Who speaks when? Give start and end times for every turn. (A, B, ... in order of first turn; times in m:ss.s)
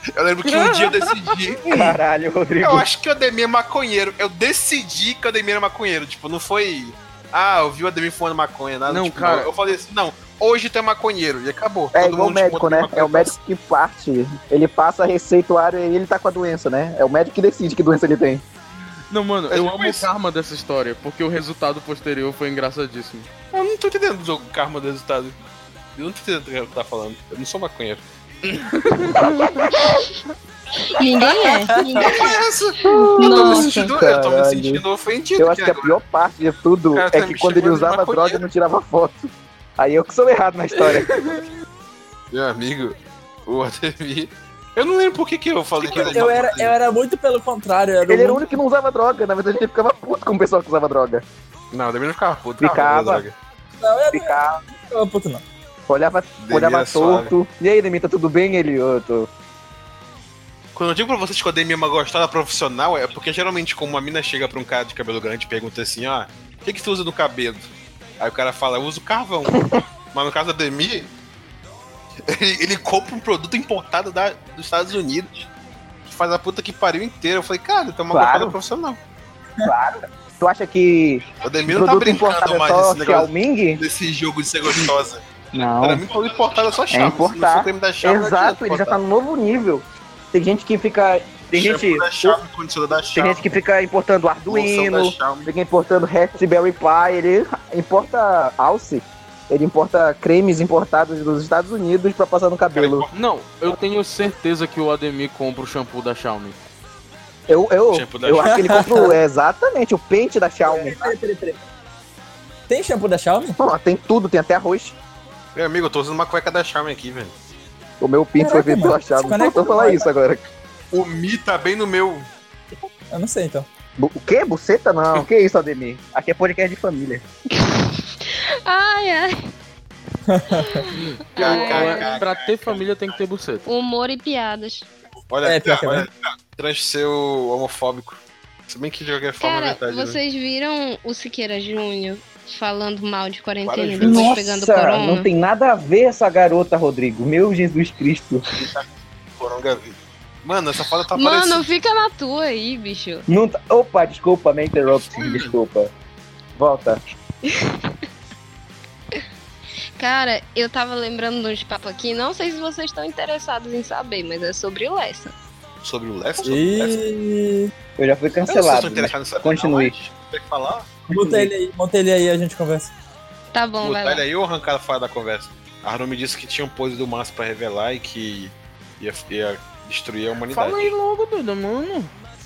0:00.1-0:02.0 A
0:00.5-0:01.3 B
0:01.6-0:02.8 C
0:02.6-0:13.3 A
0:08.9-0:09.5 B
0:11.9-0:18.4 C
0:19.1-0:23.3 B
0:19.5-0:20.1 A
0:23.5-0:25.3 A
0:26.0-0:28.0 A
0:28.5-0:29.7 B
0:30.8-0:32.3 D
0:32.0-0:36.0 A
0:32.8-0:33.9 D
0:32.8-0:34.8 C
0:35.4-0:41.4 C
0:36.9-0:38.4 A
0:42.3-0:46.7 A
0:45.8-0:46.3 C
0:45.9-0:48.4 E
0:48.1-0:51.2 C
0:51.7-0:53.3 A
0:52.6-0:53.2 C
0:53.8-0:55.4 E
0:54.1-0:54.6 C
0:55.9-0:59.3 C
0:56.4-0:57.3 A
1:00.7-1:07.7 A
1:08.2-1:11.1 A
1:12.3-1:15.5 A
1:16.0-1:19.0 A
1:18.1-1:18.6 C
1:19.6-1:23.8 C
1:21.4-1:25.2 A
1:25.5-1:26.0 C
1:25.8-1:29.0 A
1:26.9-1:32.4 C
1:31.5-1:33.4 A
1:33.1-1:43.1 C
1:34.5-1:35.5 A
1:42.7-1:43.1 A
1:43.1-1:46.6 B
1:47.5-1:51.1 C
1:47.9-1:49.1 A
1:48.4-1:49.2 E
1:50.7-1:51.6 E
1:52.7-1:53.6 E
1:53.6-1:55.0 C
1:55.5-1:57.3 A
1:58.0-2:00.4 C
1:58.4-2:00.1 E
2:00.9-2:02.3 A
2:03.1-2:03.6 E
2:04.0-2:07.2 C
2:07.5-2:09.4 D
2:10.3-2:10.8 E
2:10.5-2:12.1 D
2:10.9-2:13.6 B
2:11.4-2:13.2 A
2:13.6-2:14.9 D
2:15.3-2:20.2 A
2:15.4-2:16.1 E
2:19.4-2:25.3 D
2:23.6-2:24.3 A
2:24.0-2:28.4 C
2:28.5-2:28.8 A
2:29.4-2:31.6 A
2:31.1-2:33.2 D
2:33.3-2:35.9 C
2:35.1-2:35.6 A
2:36.6-2:37.0 C
2:37.4-2:37.9 D
2:40.0-2:45.3 D
2:45.8-2:47.0 A
2:46.4-2:47.7 E
2:48.0-2:49.9 C
2:48.5-2:50.9 A
2:51.1-2:52.9 E
2:51.1-2:51.5 C
2:53.5-2:54.2 D
2:53.8-3:00.9 A
3:00.5-3:02.1 B